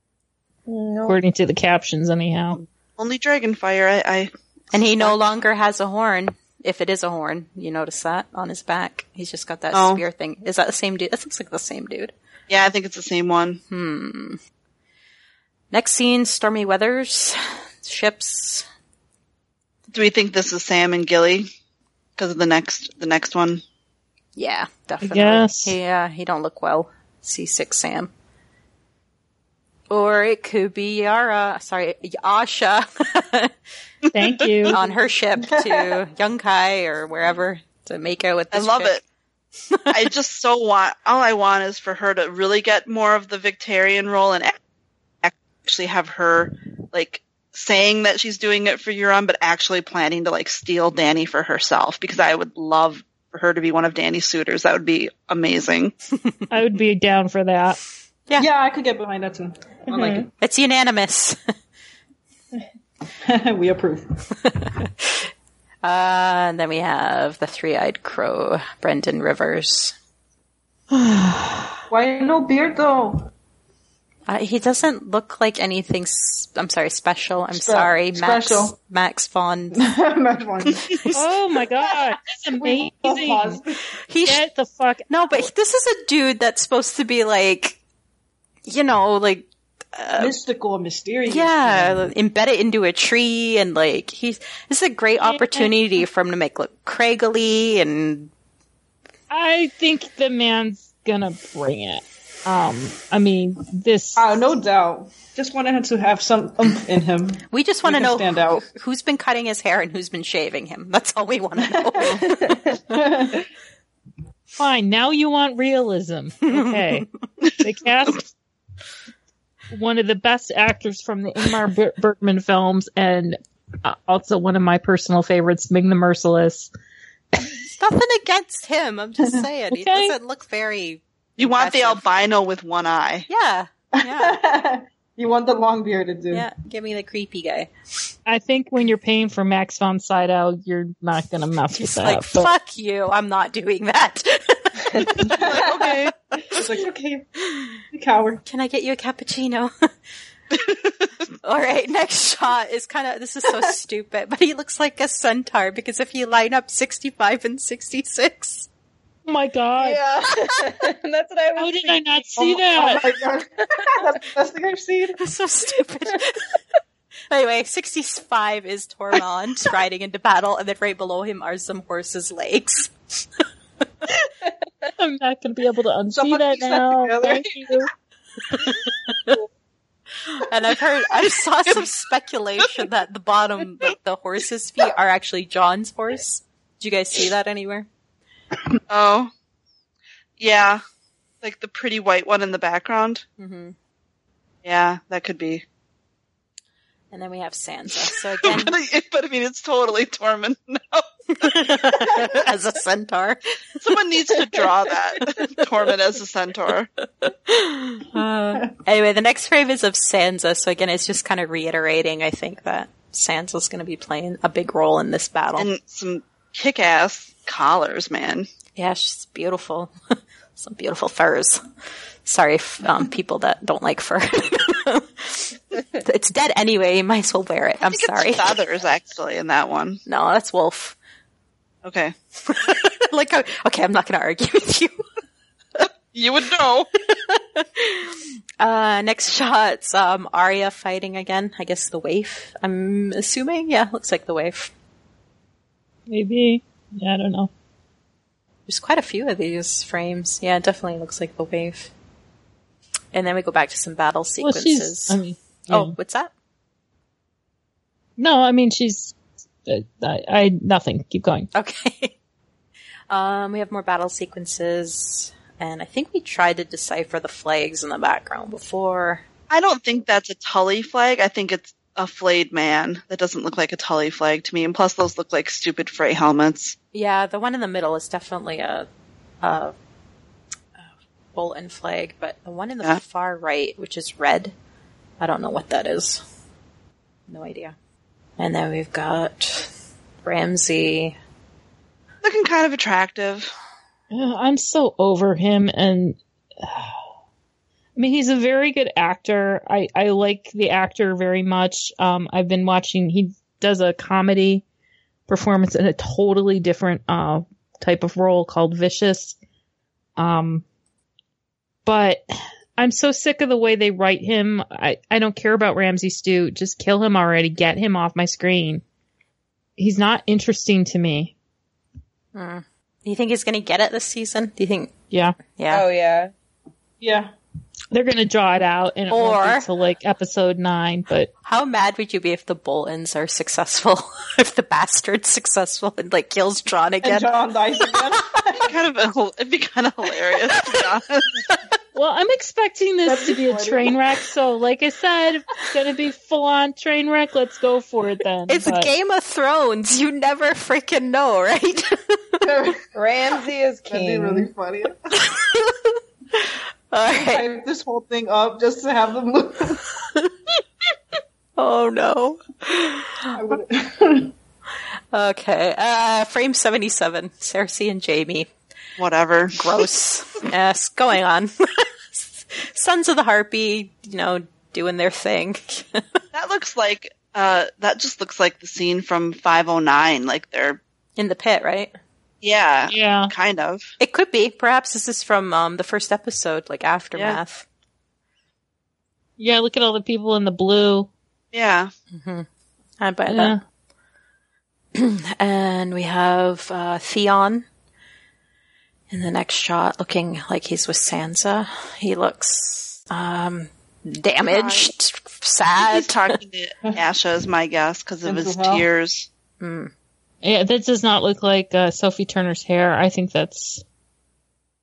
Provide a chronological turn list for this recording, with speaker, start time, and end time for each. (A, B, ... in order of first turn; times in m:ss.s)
0:00.7-0:01.2 A
0:01.0-0:02.6 B
0:02.5-0:05.2 C
0:04.7-0:12.1 D
0:09.7-0:10.0 C
0:12.5-0:13.6 C
0:13.7-0:14.4 D
0:15.7-0:18.6 D
0:19.9-0:21.5 C
0:22.2-0:23.6 C
0:24.4-0:28.1 D
0:25.0-0:25.8 B
0:29.9-0:33.5 D
0:34.0-0:34.7 C
0:34.1-0:34.8 B
0:34.7-0:39.0 D
0:35.4-0:36.0 E
0:38.5-0:39.0 C
0:39.9-0:44.6 C
0:45.2-0:55.9 C
0:56.5-0:57.8 B
0:58.4-1:00.3 E
0:59.9-1:00.3 A
1:00.4-1:01.4 D
1:03.2-1:04.0 E
1:04.4-1:05.3 D
1:05.8-1:09.9 D
1:10.9-1:11.7 B
1:11.9-1:13.3 E
1:14.3-1:19.8 D
1:17.5-1:18.8 E
1:19.7-1:20.9 E
1:20.9-1:21.2 D
1:21.1-1:23.6 B
1:21.8-1:23.8 E
1:24.0-1:24.4 D
1:24.2-1:25.5 B
1:25.1-1:27.8 D
1:28.6-1:30.3 D
1:30.2-1:32.1 E
1:31.2-1:38.3 D
1:35.2-1:35.7 B
1:39.3-1:44.2 B
1:44.2-1:48.6 E
1:47.5-1:53.0 D
1:51.6-1:53.4 E
1:52.2-1:52.6 A
1:54.5-1:57.1 B
1:57.6-1:58.3 B
1:59.7-2:06.7 B
2:07.6-2:12.1 D
2:09.7-2:10.1 B
2:11.4-2:13.3 C
2:13.3-2:14.4 D
2:14.0-2:16.4 E
2:16.3-2:17.7 D
2:18.2-2:22.5 B
2:21.7-2:25.4 D
2:25.2-2:25.6 E
2:25.3-2:26.1 C
2:26.5-2:27.3 E
2:27.9-2:28.4 E
2:28.4-2:29.7 D
2:30.5-2:31.1 C
2:31.4-2:38.7 D
2:39.2-2:40.0 B
2:39.8-2:42.2 A
2:41.6-2:43.0 B
2:42.4-2:45.2 E
2:45.2-2:46.5 D
2:47.3-2:52.9 D
2:55.0-2:57.9 B
2:56.1-2:57.6 E
2:58.5-2:59.4 D
3:00.2-3:07.9 D
3:08.9-3:09.3 C
3:10.4-3:10.8 C
3:11.4-3:13.2 C
3:13.4-3:13.7 D
3:14.6-3:15.6 C
3:17.1-3:18.8 D
3:18.4-3:22.4 C
3:21.3-3:25.6 D
3:23.8-3:26.9 C
3:27.2-3:35.7 D
3:35.6-3:38.5 C
3:38.8-3:39.9 D
3:40.6-3:41.6 D
3:42.2-3:48.6 D
3:47.9-3:50.0 C
3:50.0-3:51.0 D
3:51.8-3:52.1 C
3:52.4-3:55.0 D
3:55.8-3:56.9 C
3:57.1-4:04.7 D
4:06.1-4:07.5 B
4:08.7-4:11.9 D
4:13.1-4:16.3 D
4:14.4-4:15.9 B
4:18.2-4:19.1 B
4:19.6-4:21.5 B
4:21.5-4:22.1 D
4:23.1-4:29.2 D
4:29.5-4:36.8 C
4:36.9-4:38.9 D
4:39.4-4:39.7 D
4:40.8-4:44.5 D
4:45.2-4:46.2 D
4:47.3-4:47.8 D
4:48.4-4:49.7 D
4:50.2-4:51.2 D
4:52.2-4:53.5 C
4:54.1-4:57.0 B
4:58.0-5:04.6 B
5:05.3-5:09.4 B
5:10.2-5:10.6 B
5:11.8-5:12.2 B
5:12.8-5:18.8 B
5:19.8-5:21.3 B
5:22.3-5:25.0 D
5:25.1-5:25.4 B
5:25.5-5:25.8 D
5:25.7-5:26.3 A
5:27.0-5:27.3 E
5:27.9-5:31.3 B
5:29.1-5:29.7 D
5:31.4-5:37.3 D
5:37.0-5:38.7 E
5:38.6-5:41.4 C
5:40.6-5:40.8 D
5:41.9-5:48.9 B
5:43.0-5:44.0 E
5:48.5-5:52.4 D
5:52.4-5:52.8 E
5:52.9-5:54.5 A
5:53.9-5:55.1 E
5:55.1-5:57.5 D
5:57.1-5:59.8 E
6:01.6-6:03.3 D
6:03.3-6:04.3 E
6:05.1-6:08.5 D
6:09.0-6:09.8 C
6:09.6-6:16.0 D
6:16.3-6:20.8 C
6:21.2-6:21.9 D
6:22.4-6:23.9 C
6:22.9-6:23.3 B
6:24.0-6:27.6 D
6:27.1-6:27.4 C
6:29.4-6:31.1 B
6:31.5-6:31.9 C
6:32.1-6:32.5 D
6:33.0-6:33.6 D
6:33.3-6:33.6 B
6:34.9-6:37.6 D
6:39.1-6:46.4 D
6:44.5-6:44.9 C
6:45.8-6:49.3 C
6:48.2-6:48.8 E
6:49.6-6:49.9 D
6:50.4-6:53.8 B